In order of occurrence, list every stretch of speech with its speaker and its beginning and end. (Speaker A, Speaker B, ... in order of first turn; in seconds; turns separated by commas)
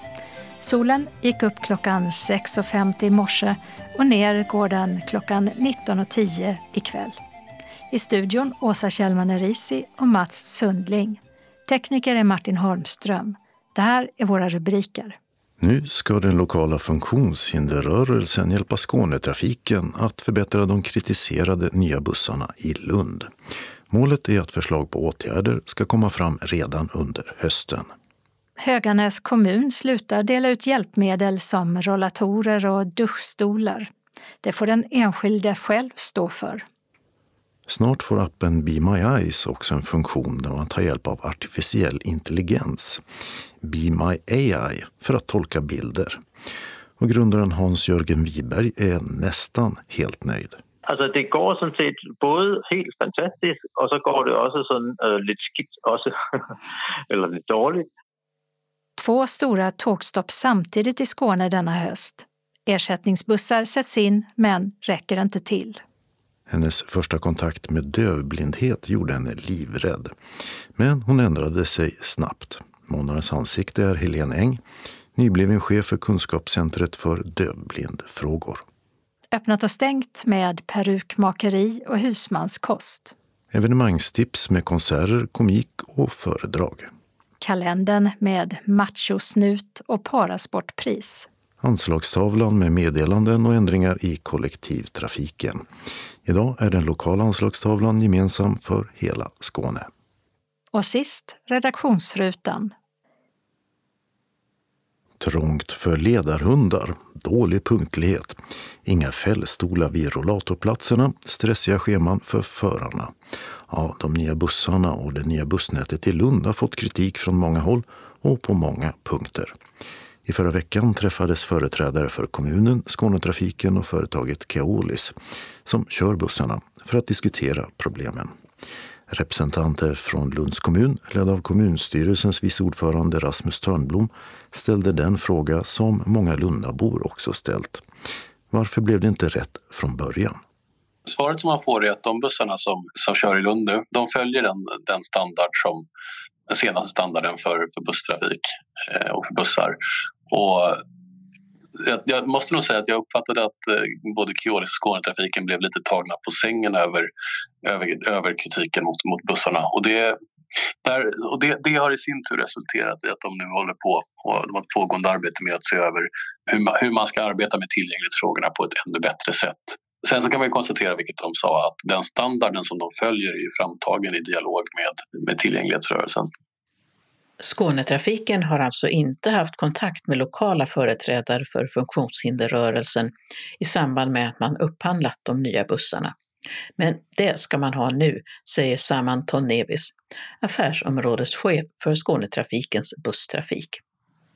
Speaker A: 0.6-7.2, Speaker A: 7.9-15.2, Speaker B: 15.6-23.3, Speaker B: 23.9-27.9, Speaker A: 28.6-33.9, Speaker A: 34.4-36.6, Speaker B: 37.7-43.0, Speaker B: 43.6-46.2, Speaker B: 47.0-50.6, Speaker C: 50.9-56.6, Speaker C: 57.1-57.9, Speaker A: 59.0-65.8, Speaker B: 66.5-70.1, Speaker B: 70.7-74.6, Speaker B: 75.1-78.6, Speaker A: 79.3-83.1, Speaker B: 83.5-86.9, Speaker A: 87.4-91.3, Speaker B: 91.6-95.6, Speaker B: 96.2-99.9, Speaker A: 100.7-102.7, Speaker B: 105.2-113.1, Speaker B: 113.7-119.5, Speaker B: 120.2-128.3, Speaker B: 129.1-137.8, Speaker B: 138.5-140.4, Speaker D: 141.1-145.8, Speaker D: 146.5-149.8, Speaker D: 150.3-150.8, Speaker D: 151.8-157.1, Speaker D: 157.6-160.2, Speaker D: 160.8-176.3, Speaker E: 177.4-186.2, Speaker E: 186.8-193.8